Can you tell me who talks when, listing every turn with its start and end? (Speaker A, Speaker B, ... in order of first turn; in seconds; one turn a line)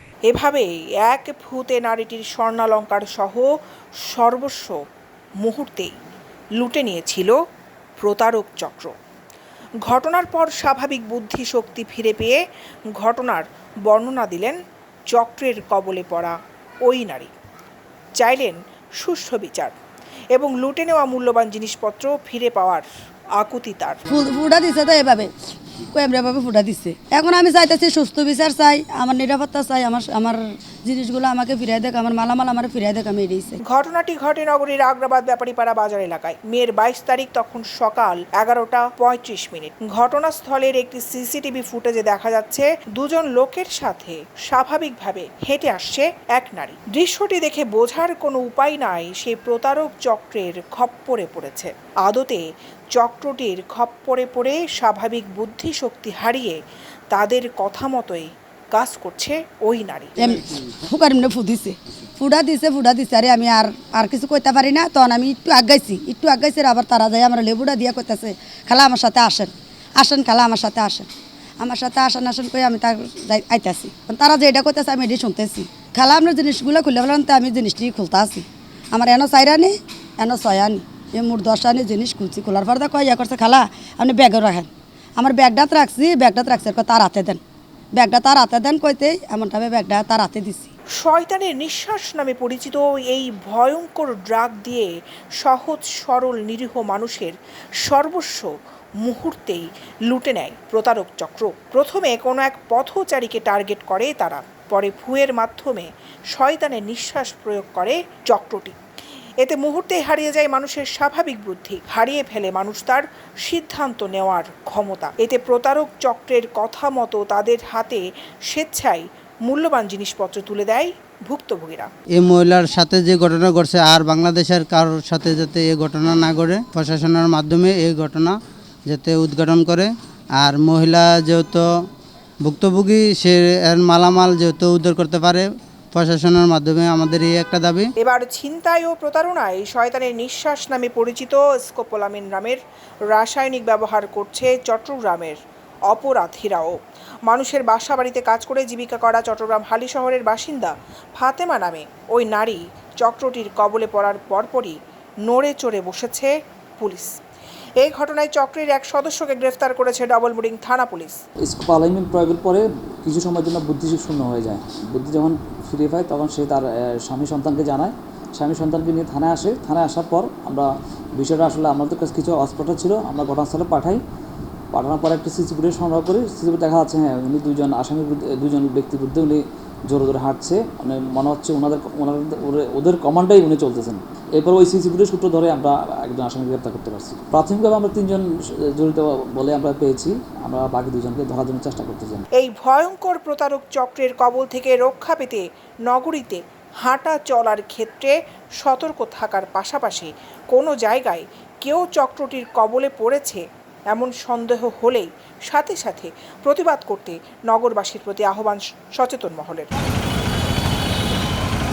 Speaker A: 0.3-3.5
Speaker A: 4.1-4.8
Speaker A: 5.4-6.0
Speaker A: 6.6-7.4
Speaker A: 8.0-8.9
Speaker A: 9.9-12.4
Speaker A: 13.0-14.6
Speaker A: 15.1-17.3
Speaker A: 18.2-19.8
Speaker A: 20.4-22.9
Speaker A: 23.4-24.0
Speaker B: 24.1-25.3
Speaker B: 25.9-33.6
Speaker A: 33.6-56.6
Speaker A: 57.1-60.1
Speaker B: 60.2-71.1
Speaker B: 71.6-87.4
Speaker B: 88.0-90.7
Speaker A: 91.0-108.8
Speaker A: 109.4-121.9
Speaker C: 122.2-128.4
Speaker C: 128.9-131.8
Speaker C: 132.4-137.9
Speaker A: 138.0-145.4
Speaker A: 145.9-146.8
Speaker A: 147.3-157.2
Speaker A: 157.8-161.2
Speaker D: 161.4-174.0
Speaker D: 174.7-192.2
Speaker A: 192.4-209.7